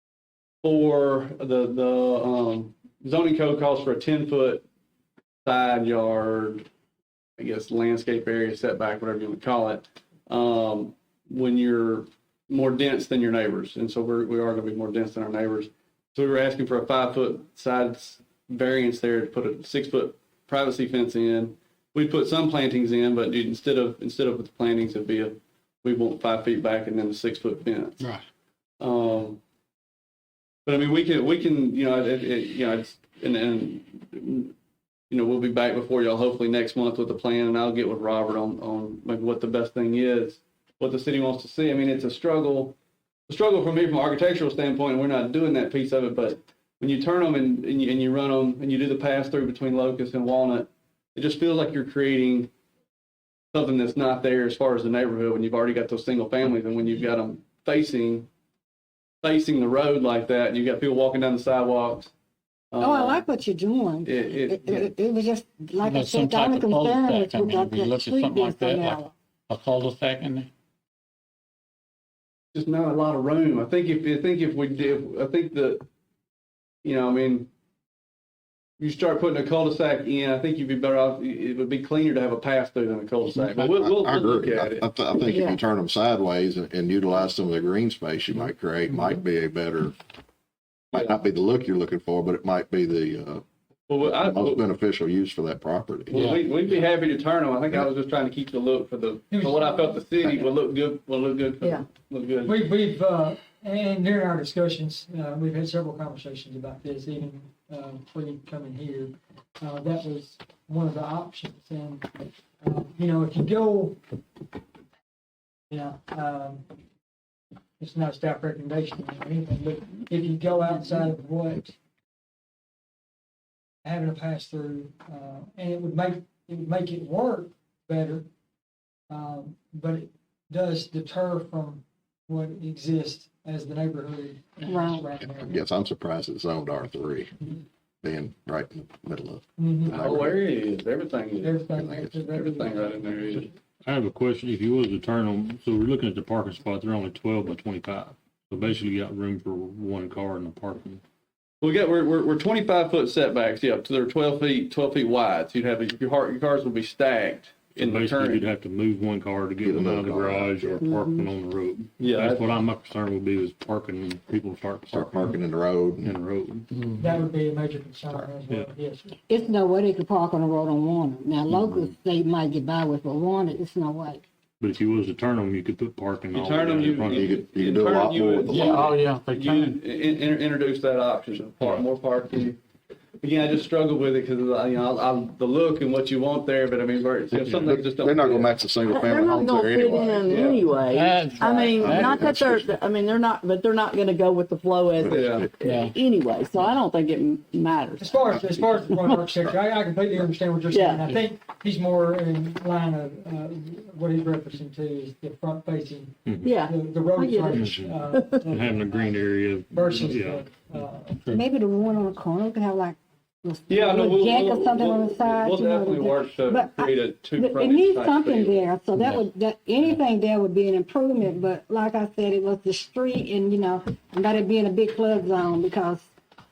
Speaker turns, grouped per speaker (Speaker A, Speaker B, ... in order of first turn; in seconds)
Speaker A: 0.6-4.6, 5.4-6.7, 7.4-28.1, 28.8-29.4, 30.6-34.5, 35.1-42.8, 43.3-52.5, 53.5-58.3, 59.2-62.1, 62.7-63.2, 64.0-64.9, 72.5-75.8, 76.8-77.5, 78.8-84.9, 93.9-94.6, 96.1-102.6, 139.9-141.7, 142.2-143.5, 151.6-158.4, 162.0-162.5, 176.3-182.6, 183.2-188.5, 190.2-190.7, 195.1-195.5, 213.7-218.7
Speaker B: 62.8-69.1, 134.7-135.1, 169.3-174.2, 211.2-226.1
Speaker C: 65.8-70.5, 96.1-96.4, 178.5-179.8, 190.8-192.3, 195.6-195.9
Speaker D: 83.5-89.9, 90.9-93.4, 94.0-96.2, 135.3-137.3, 138.0-140.4, 141.8-142.2, 159.6-160.8, 164.9-166.1, 177.1-178.9, 187.3-190.7, 191.6-192.8, 195.0-195.5
Speaker E: 85.2-85.6, 160.8-161.2, 188.9-199.5, 200.7-201.2, 206.4-208.5
Speaker F: 99.3-99.8, 102.4-112.1, 112.6-114.0, 115.7-116.6, 117.8-121.7, 123.8-128.3, 129.1-135.6, 139.6-140.0, 141.4-143.5, 167.0-169.2, 198.0-209.2, 209.7-211.2
Speaker G: 143.8-151.0, 157.8-165.4, 166.0-166.7, 174.6-177.4, 206.2-206.6, 207.5-207.9, 208.4-210.6